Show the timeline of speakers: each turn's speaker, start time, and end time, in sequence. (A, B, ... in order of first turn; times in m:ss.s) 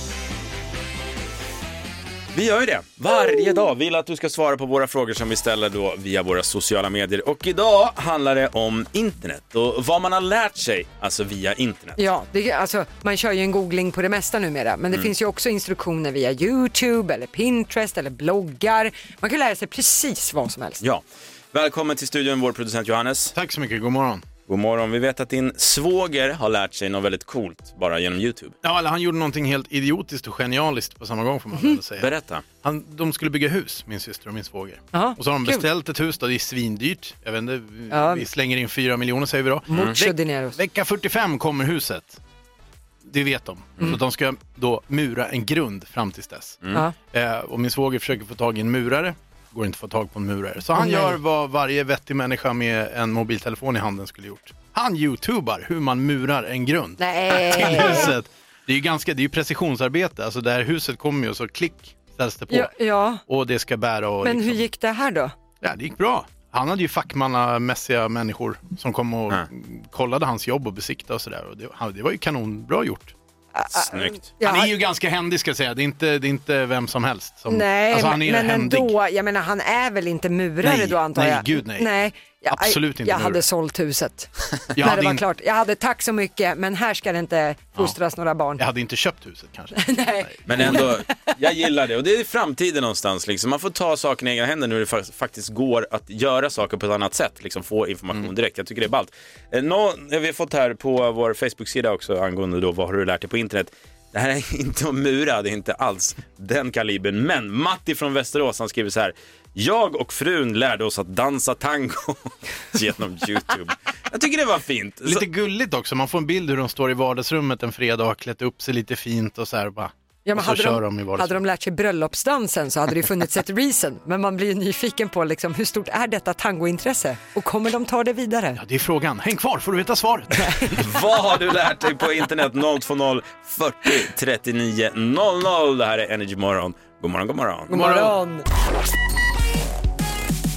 0:02.3-0:12.0 A
0:12.0-0:20.8 B
0:20.8-0:23.3 A
0:23.3-0:24.2 C
0:24.5-0:28.6 A
0:28.6-0:42.2 C
0:32.0-0:32.4 A
0:34.9-0:35.7 B
0:37.9-0:38.2 B
0:39.7-0:40.6 B
0:39.7-0:40.0 A
0:43.0-1:02.7 C
0:50.8-0:51.2 B
0:57.0-0:58.1 B
1:02.5-1:03.2 B
1:03.2-1:04.6 C
1:04.2-1:05.3 B
1:05.6-1:13.1 C
1:13.5-1:14.7 B
1:13.7-1:14.3 A
1:14.4-1:18.9 C
1:17.5-1:28.6 B
1:20.6-1:21.9 C
1:22.5-1:23.4 C
1:24.7-1:25.2 C
1:28.6-1:30.7 C
1:29.7-1:30.9 B
1:30.4-1:55.3 A
1:55.0-2:01.4 C
2:00.2-2:08.6 B
2:08.6-2:10.7 C
2:10.7-2:17.8 A
2:17.7-2:18.4 B
2:17.7-2:18.2 C